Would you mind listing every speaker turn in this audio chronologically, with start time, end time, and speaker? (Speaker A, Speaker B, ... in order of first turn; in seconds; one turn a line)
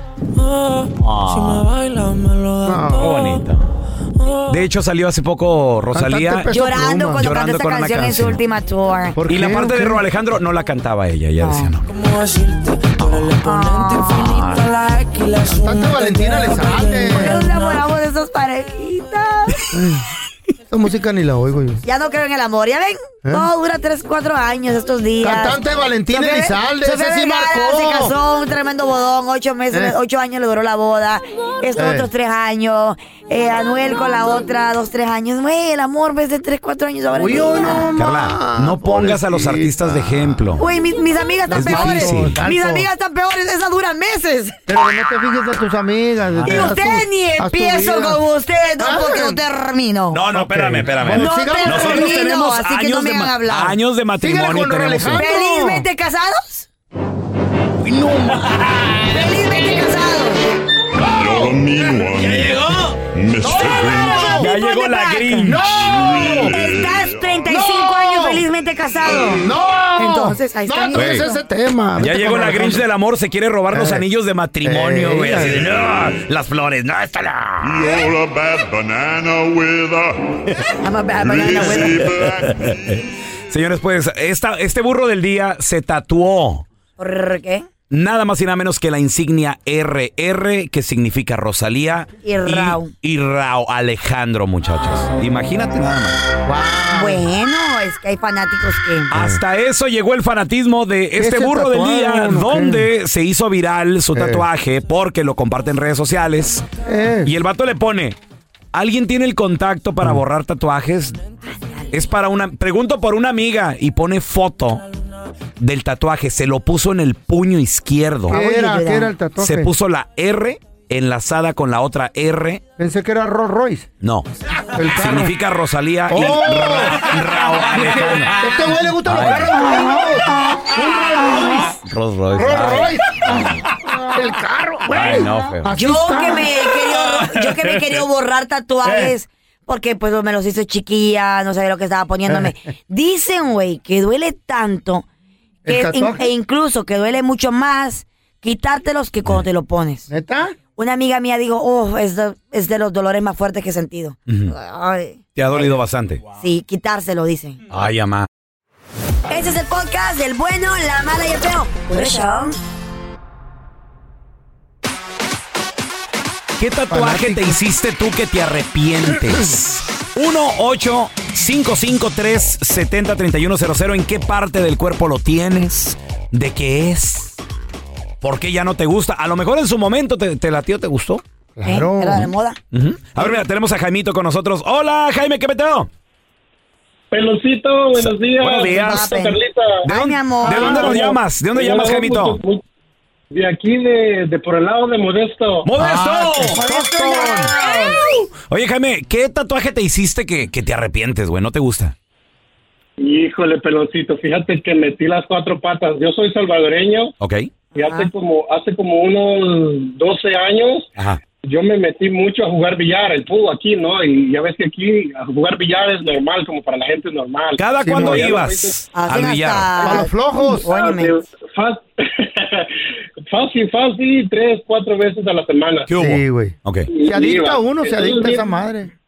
Speaker A: 0.4-3.5
Speaker B: 1.0-1.7
Speaker C: 2.6-3.1
Speaker B: 3.0-3.6
Speaker A: 4.2-4.6
Speaker B: 4.5-6.5
Speaker C: 5.9-7.3
Speaker D: 6.5-9.2
Speaker B: 7.2-8.4
Speaker C: 9.1-10.0
Speaker B: 9.3-11.8
Speaker D: 11.4-11.7
Speaker A: 11.8-17.9
Speaker D: 13.4-14.6
Speaker B: 14.3-14.6
Speaker C: 15.4-17.4
Speaker D: 17.0-19.6
Speaker C: 19.7-20.0
Speaker C: 20.7-21.8
Speaker D: 21.8-37.9
Speaker C: 23.2-23.5
Speaker C: 25.2-28.1
Speaker C: 31.8-32.1
Speaker C: 37.1-40.4
Speaker B: 38.0-40.6
Speaker D: 40.6-44.7
Speaker B: 41.5-42.4
Speaker C: 41.5-42.9
Speaker C: 44.7-48.2
Speaker B: 46.3-47.0
Speaker D: 46.5-50.2
Speaker C: 48.8-49.4
Speaker B: 50.1-55.2
Speaker C: 50.3-52.1
Speaker D: 51.1-53.8
Speaker C: 54.2-55.9
Speaker D: 55.1-56.6
Speaker B: 57.8-59.9
Speaker D: 59.1-60.5
Speaker E: 61.0-64.5
Speaker B: 61.1-63.0
Speaker C: 63.4-64.5
Speaker D: 63.5-65.6
Speaker B: 64.3-65.7
Speaker C: 65.4-66.7
Speaker E: 65.7-67.4
Speaker D: 66.2-71.4
Speaker C: 67.5-68.5
Speaker C: 69.1-72.8
Speaker B: 70.9-71.2
Speaker B: 72.0-78.1
Speaker C: 73.7-74.0
Speaker C: 74.6-75.7
Speaker E: 77.6-80.5
Speaker D: 80.8-82.1
Speaker E: 81.2-82.8
Speaker B: 81.8-86.7
Speaker D: 87.0-87.7
Speaker B: 87.9-96.2
Speaker D: 92.2-92.9
Speaker C: 96.4-97.2
Speaker D: 96.9-99.1
Speaker B: 99.1-106.7
Speaker C: 99.1-99.4
Speaker C: 101.2-102.9
Speaker C: 104.1-104.4
Speaker C: 106.8-107.3
Speaker B: 107.2-108.2
Speaker B: 108.7-111.2
Speaker D: 111.5-111.9
Speaker B: 111.9-114.8
Speaker B: 115.6-118.4
Speaker C: 118.3-119.7
Speaker D: 118.3-119.1
Speaker B: 119.4-122.6
Speaker C: 122.8-123.9
Speaker B: 124.0-124.3
Speaker C: 124.7-125.3
Speaker B: 124.9-129.6
Speaker C: 126.1-131.7
Speaker D: 129.5-131.7
Speaker B: 131.8-133.5
Speaker C: 132.3-133.3
Speaker C: 134.0-136.6
Speaker B: 134.9-135.7
Speaker D: 135.7-145.1
Speaker C: 138.8-139.1
Speaker C: 142.3-142.5
Speaker C: 145.6-146.3
Speaker D: 145.7-150.1
Speaker C: 150.1-150.5
Speaker D: 150.8-155.2
Speaker B: 154.3-154.5
Speaker B: 155.3-156.2
Speaker D: 156.4-157.6
Speaker B: 157.7-158.3
Speaker D: 159.3-162.6
Speaker B: 166.6-177.3
Speaker C: 166.9-167.6
Speaker B: 178.2-181.2
Speaker C: 181.6-182.3
Speaker D: 181.6-182.6
Speaker B: 182.7-185.9
Speaker F: 187.1-189.8
Speaker B: 187.9-189.1
Speaker D: 188.8-191.1
Speaker B: 189.8-192.4
Speaker F: 190.4-192.6
Speaker F: 193.3-195.7
Speaker B: 195.6-201.9
Speaker C: 195.8-197.9
Speaker D: 196.6-198.1
Speaker F: 203.0-207.1
Speaker B: 207.2-207.6
Speaker F: 207.7-210.9
Speaker D: 207.8-208.1
Speaker F: 211.4-218.7
Speaker B: 217.6-219.9
Speaker C: 217.8-218.3
Speaker D: 218.9-221.2
Speaker C: 219.8-220.7
Speaker F: 220.4-222.7
Speaker F: 223.3-225.9
Speaker B: 225.9-226.9
Speaker C: 225.9-228.9
Speaker F: 226.9-228.5